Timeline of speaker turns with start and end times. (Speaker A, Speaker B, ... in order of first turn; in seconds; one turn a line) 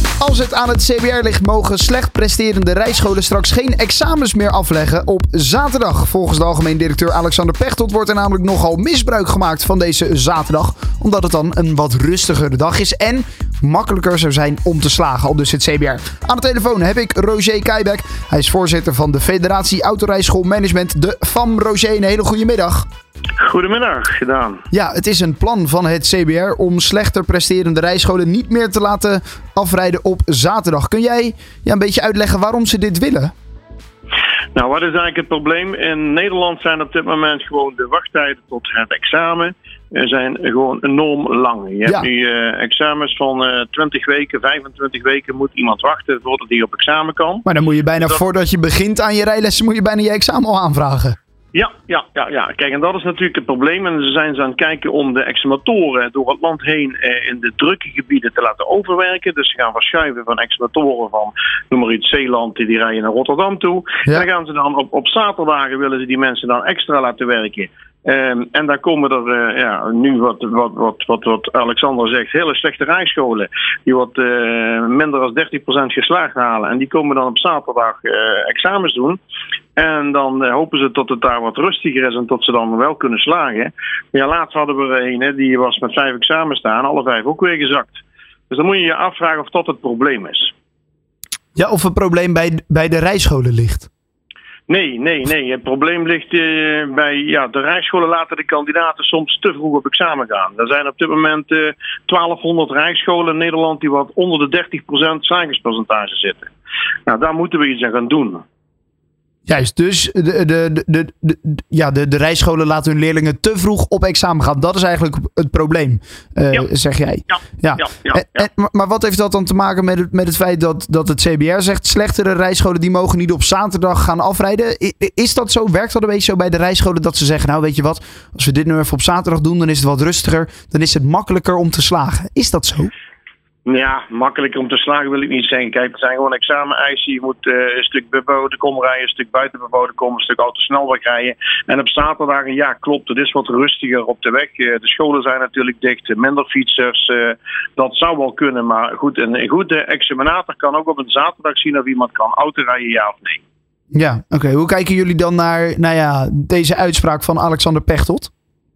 Speaker A: 0.2-22.9
Speaker B: 23.4-24.6
Speaker A: 24.7-33.3
Speaker B: 34.5-47.5
Speaker A: 47.5-51.2
Speaker B: 51.5-79.2
Speaker B: 79.8-90.5
Speaker A: 91.6-93.9
Speaker B: 94.7-106.5
Speaker B: 107.1-108.4
Speaker A: 109.5-132.9
Speaker B: 117.3-118.5
Speaker B: 133.7-153.4
Speaker A: 153.9-158.3